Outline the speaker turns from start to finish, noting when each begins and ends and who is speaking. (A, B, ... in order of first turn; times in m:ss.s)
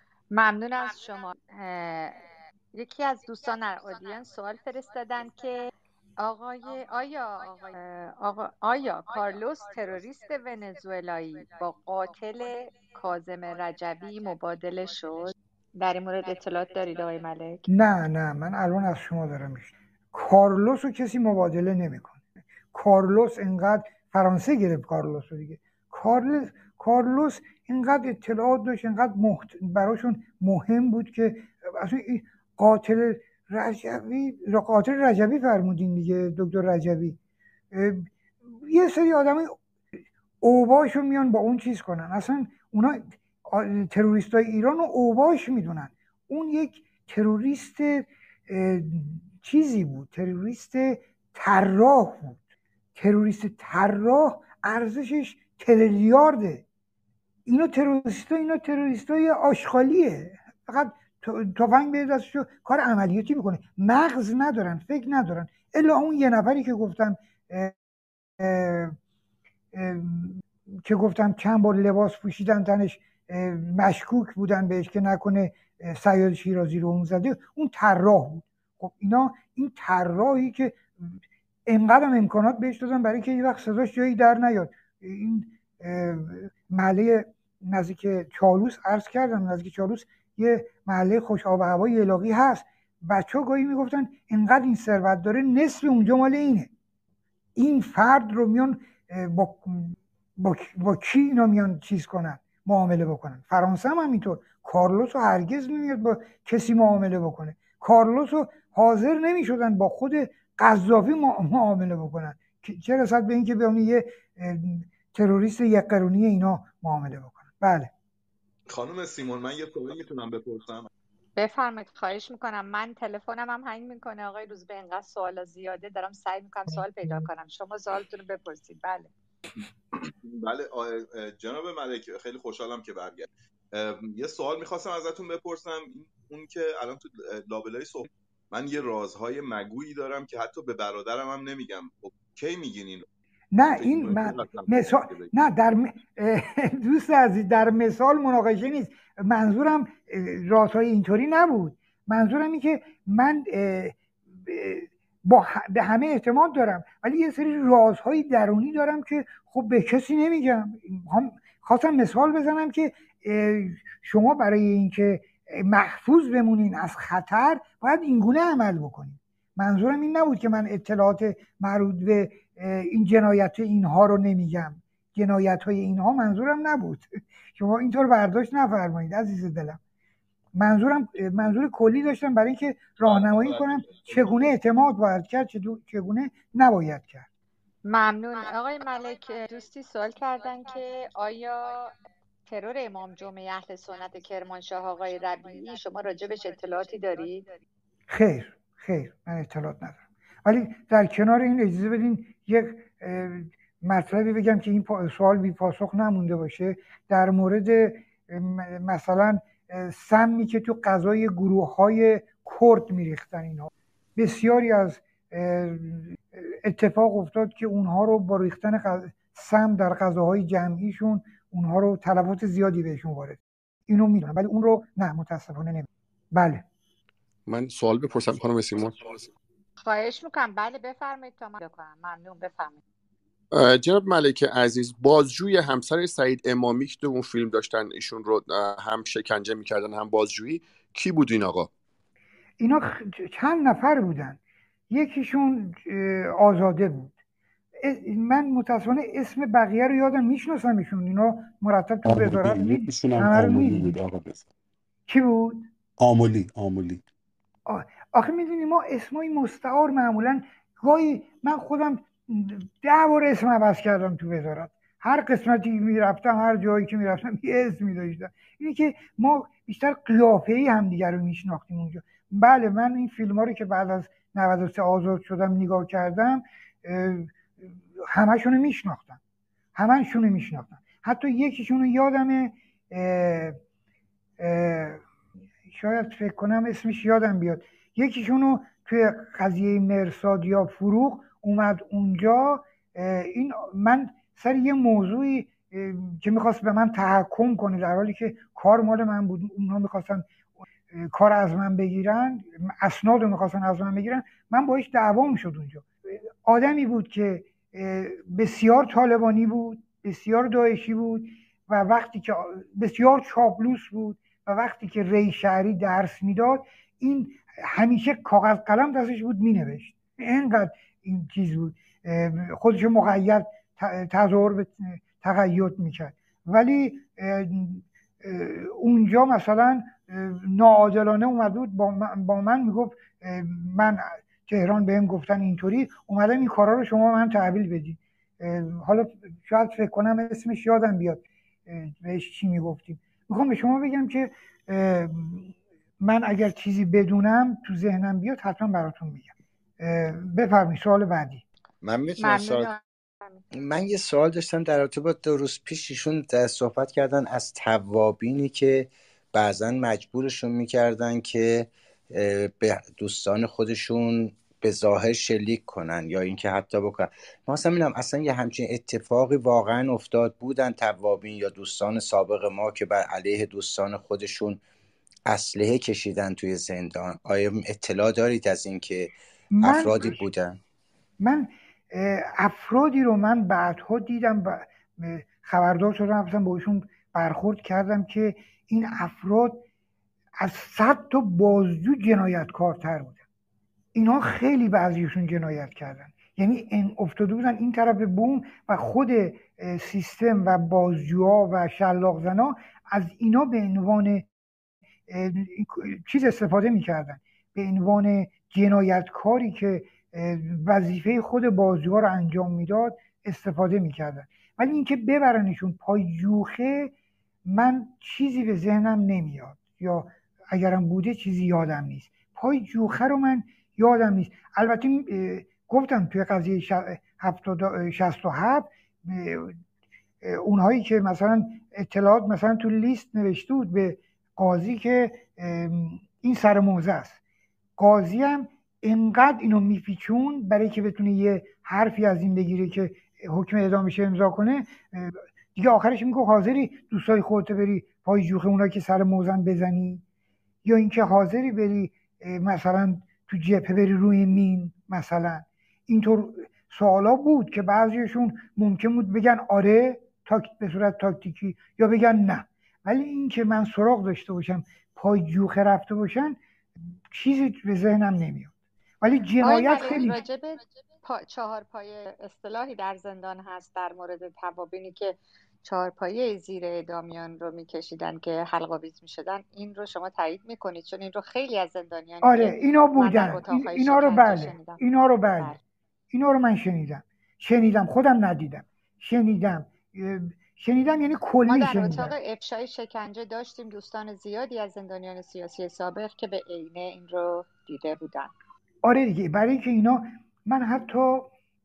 0:00.3-0:17.6 A
0:17.7-0:22.2 B
0:22.7-0:37.2 B
0:37.7-0:39.6 B
0:40.4-0:52.4 B
0:53.0-0:56.6 B
0:57.5-1:07.8 B
1:08.4-1:09.0 B
1:09.7-1:21.1 B
1:21.7-1:36.7 B
1:37.6-1:57.9 B
1:58.7-2:00.9 C
2:01.4-2:09.1 A
2:10.2-2:23.0 C
2:23.5-2:59.8 B
2:23.8-2:25.3 C
3:00.6-3:07.3 B
3:03.1-3:04.1 C
3:07.9-3:11.9 A
3:12.5-3:17.5 A
3:18.1-3:46.6 B
3:47.5-3:49.3 D
3:49.8-3:52.8 A
3:53.5-4:01.7 D
4:02.6-4:04.4 B
4:04.9-4:07.1 B
4:07.8-4:14.0 B
4:12.0-4:14.5 E
4:15.1-4:15.6 B
4:16.0-4:17.0 E
4:17.7-4:39.2 B
4:39.8-4:43.6 B
4:44.4-4:45.0 B
4:45.7-5:51.4 B
5:51.8-5:52.7 F
5:52.2-5:52.8 A
5:53.5-6:14.6 F
6:15.3-6:20.6 F
6:19.5-6:20.2 B
6:21.2-6:29.6 B
6:30.4-6:33.2 B
6:34.0-6:44.3 B
6:45.1-6:56.9 B
6:57.4-7:09.6 B
7:10.2-7:17.2 B
7:17.8-7:30.0 B
7:30.6-7:46.4 B
7:47.1-7:50.2 B
7:49.4-8:04.8 A
8:02.2-8:05.6 B
8:06.1-8:12.2 B
8:11.5-8:18.3 A
8:18.8-8:21.3 B